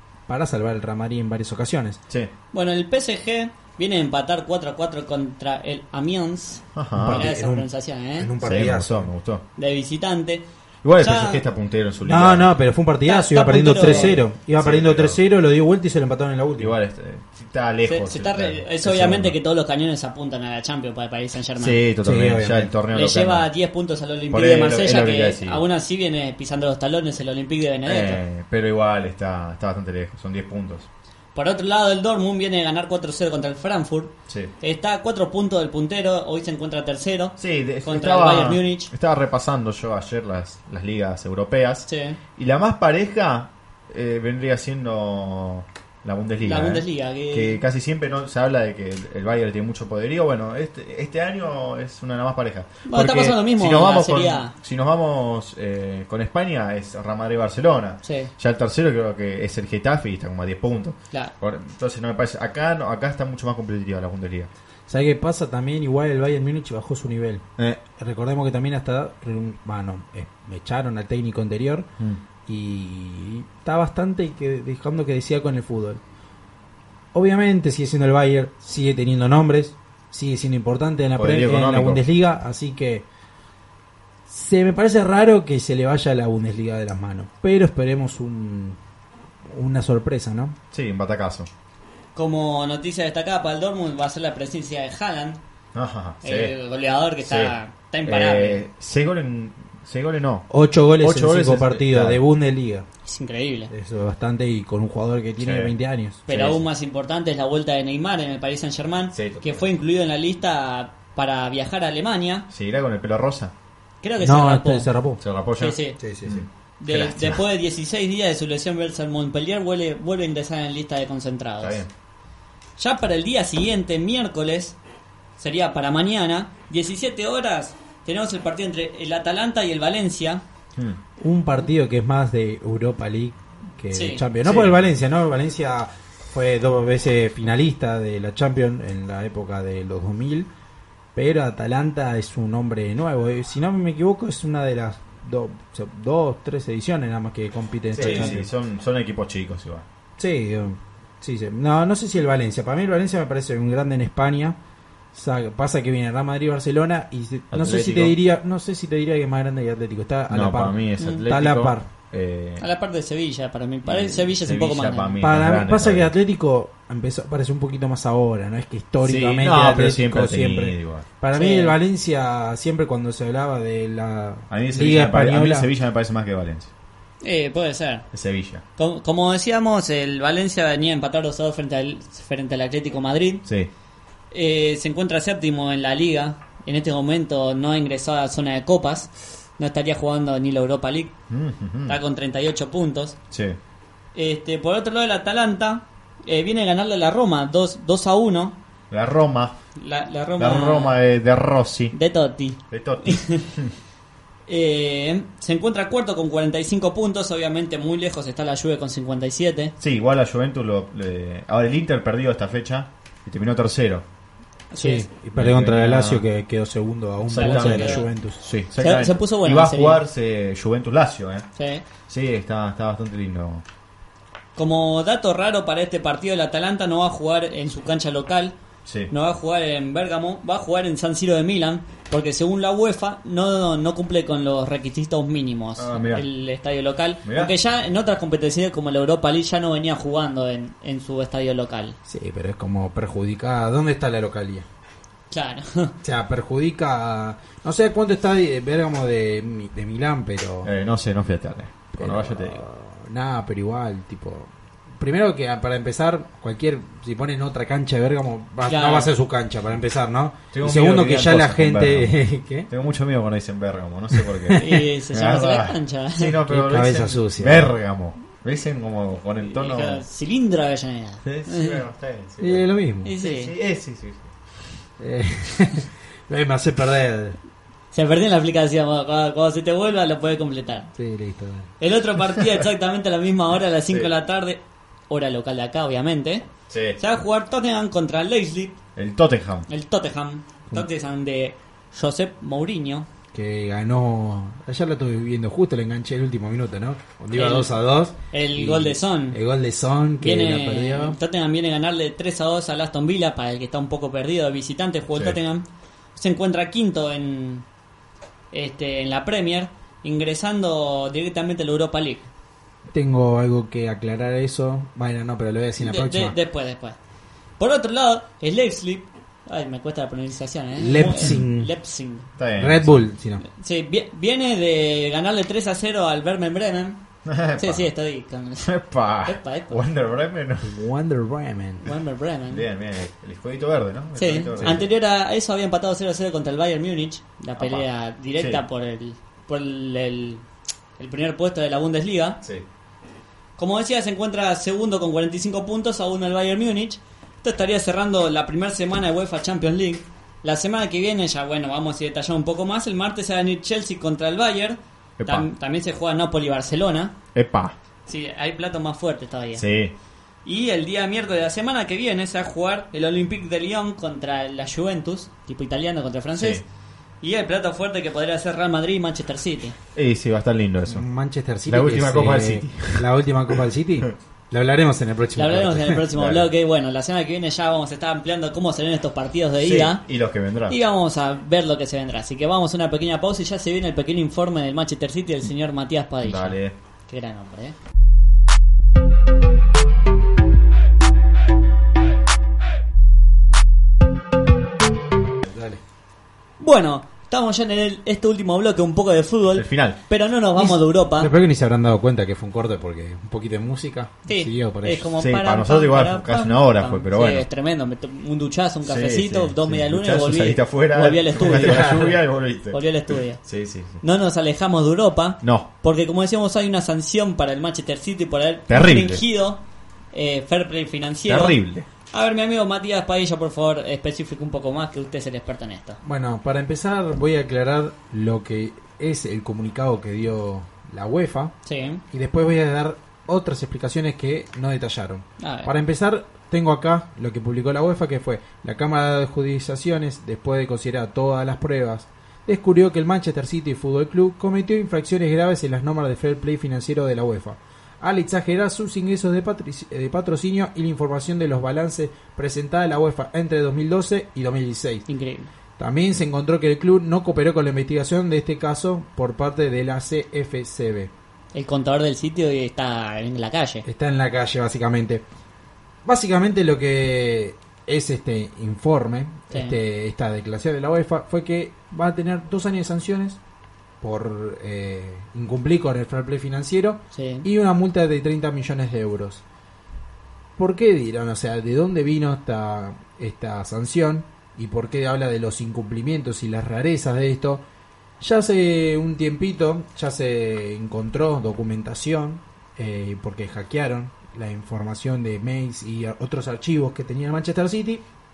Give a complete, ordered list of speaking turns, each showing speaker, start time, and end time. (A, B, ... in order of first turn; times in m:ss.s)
0:00.3-0:02.0 A
0:02.5-0:08.3 B
0:06.8-0:07.3 C
0:06.9-0:09.1 A
0:08.4-0:09.4 C
0:09.6-0:10.4 B
0:10.8-0:12.5 C
0:11.0-0:11.4 B
0:12.0-0:16.8 A
0:13.0-0:14.2 B
0:13.8-0:15.2 C
0:16.6-0:19.4 C
0:17.9-0:21.8 B
0:21.6-0:23.5 C
0:22.0-0:22.7 A
0:22.9-0:28.2 B
0:24.3-0:25.6 C
0:27.8-0:30.9 C
0:31.4-0:38.9 B
0:37.4-1:04.5 C
0:41.9-0:42.2 B
0:46.4-0:47.6 B
0:52.9-0:54.5 B
0:58.0-0:58.3 B
1:04.9-1:11.9 A
1:07.6-1:07.8 C
1:12.5-1:16.0 A
1:17.1-1:23.1 A
1:21.2-1:22.0 C
1:24.3-1:28.8 A
1:29.5-1:30.6 A
1:30.7-1:31.5 C
1:32.2-1:35.4 B
1:35.7-1:36.5 C
1:36.2-1:38.6 B
1:37.2-1:40.5 C
1:40.5-1:42.9 A
1:41.0-1:42.2 C
1:43.0-1:43.7 B
1:43.7-1:46.2 A
1:45.4-1:45.7 C
1:46.3-1:46.6 C
1:46.3-1:52.5 B
1:49.1-1:49.7 C
1:52.5-1:53.5 C
1:54.0-1:54.9 B
1:54.2-1:55.2 A
1:55.2-1:57.4 C
1:55.6-1:56.0 B
1:56.0-1:56.5 A
1:56.8-2:01.8 B
2:01.6-2:01.9 C
2:02.8-2:04.8 B
2:05.4-2:10.4 B
2:11.2-2:20.5 A
2:13.9-2:14.2 B
2:14.4-2:14.8 C
2:21.2-2:28.4 A
2:27.9-2:29.9 C
2:30.2-2:34.6 A
2:35.1-2:41.9 A
2:37.5-2:38.2 C
2:40.3-2:42.7 C
2:42.6-2:45.2 B
2:43.8-2:46.1 C
2:45.2-2:55.7 A
2:49.0-2:51.1 C
2:51.3-2:51.8 B
2:54.5-2:56.7 C
2:57.2-2:58.1 B
2:58.1-2:58.6 C
2:58.8-3:03.4 B
3:04.3-3:11.1 B
3:11.3-3:12.0 C
3:11.9-3:13.2 B
3:13.3-3:13.6 C
3:14.2-3:18.6 B
3:18.9-3:19.6 C
3:19.8-3:21.0 B
3:20.4-3:22.0 C
3:21.9-3:23.5 B
3:22.7-3:23.7 C
3:24.5-3:29.7 B
3:29.8-3:34.0 C
3:34.7-3:35.1 B
3:34.8-3:38.4 A
3:35.3-3:36.2 C
3:37.3-3:41.5 C
3:37.3-3:38.1 B
3:38.8-3:40.0 B
3:41.6-3:41.8 B
3:42.1-3:43.6 C
3:44.6-3:48.6 B
3:48.8-3:49.1 C
3:49.1-4:02.0 B
3:55.8-3:56.3 C
3:57.2-3:57.5 C
4:02.1-4:04.7 A
4:05.3-4:05.9 B
4:06.0-4:10.7 A
4:10.6-4:12.6 C
4:11.9-4:22.7 A
4:18.7-4:19.1 B
4:20.5-4:30.0 C
4:24.2-4:24.8 A
4:24.6-4:26.4 B
4:26.5-4:27.7 A
4:29.4-4:31.8 B
4:31.2-4:32.7 C
4:32.4-4:33.1 A
4:33.0-4:33.5 B
4:33.2-4:34.5 C
4:35.0-4:37.4 A
4:37.9-4:40.9 B
4:41.0-4:41.7 A
4:41.8-4:46.5 B
4:42.4-4:42.6 C
4:46.7-4:47.0 C
4:47.0-4:48.8 B
4:49.0-4:49.7 C
4:49.7-4:53.1 B
4:53.3-5:01.2 A
4:57.3-4:57.7 B
4:58.3-4:59.4 B
5:00.2-5:07.6 B
5:05.1-5:05.4 C
5:08.5-5:12.3 B
5:12.9-5:16.4 A
5:15.8-5:17.0 B
5:17.6-5:22.3 B
5:20.8-5:21.7 A
5:22.4-5:23.1 C
5:22.6-5:23.4 A
5:23.4-5:27.0 B
5:27.2-5:27.9 C
5:27.6-5:29.8 B
5:28.6-5:30.8 C
5:30.6-5:31.9 A
5:31.8-5:32.6 B
5:32.5-5:34.9 C
5:34.2-5:40.4 B
5:34.6-5:34.8 A
5:37.6-5:38.6 C
5:41.0-5:42.4 B
5:43.6-5:57.2 B
5:55.2-5:55.5 C
5:57.3-5:57.8 C
5:58.1-5:59.6 B
5:59.5-5:59.9 C
6:00.4-6:06.6 B
6:06.4-6:06.6 C
6:07.2-6:09.8 B
6:10.0-6:11.0 C
6:10.9-6:16.0 A
6:11.7-6:13.1 C
6:15.4-6:20.1 B
6:16.1-6:16.5 C
6:19.6-6:20.8 C
6:20.7-6:27.8 B
6:26.2-6:26.8 C
6:35.5-6:35.8 A
6:36.6-6:41.3 B
6:39.5-6:40.0 C
6:40.6-6:45.1 A
6:44.3-6:52.2 B
6:45.2-6:47.5 C
6:48.8-6:52.8 C
6:51.4-6:52.2 A
6:52.7-6:53.4 B
6:53.4-6:54.0 C
6:54.0-6:59.6 B
6:55.4-6:55.7 C
6:58.7-6:59.2 C
7:00.1-7:01.6 B
7:01.2-7:01.9 C
7:02.1-7:06.0 B
7:06.0-7:11.5 A
7:11.6-7:12.0 B
7:12.1-7:35.1 A
7:15.4-7:15.7 B
7:35.1-7:35.5 B
7:35.8-7:41.1 A
7:41.5-7:43.8 B
7:43.8-7:45.2 A
7:46.0-7:53.4 A
7:49.5-7:49.8 B
7:54.0-7:59.4 A
7:57.1-7:57.5 B
8:00.6-8:07.6 A
8:08.2-8:18.0 A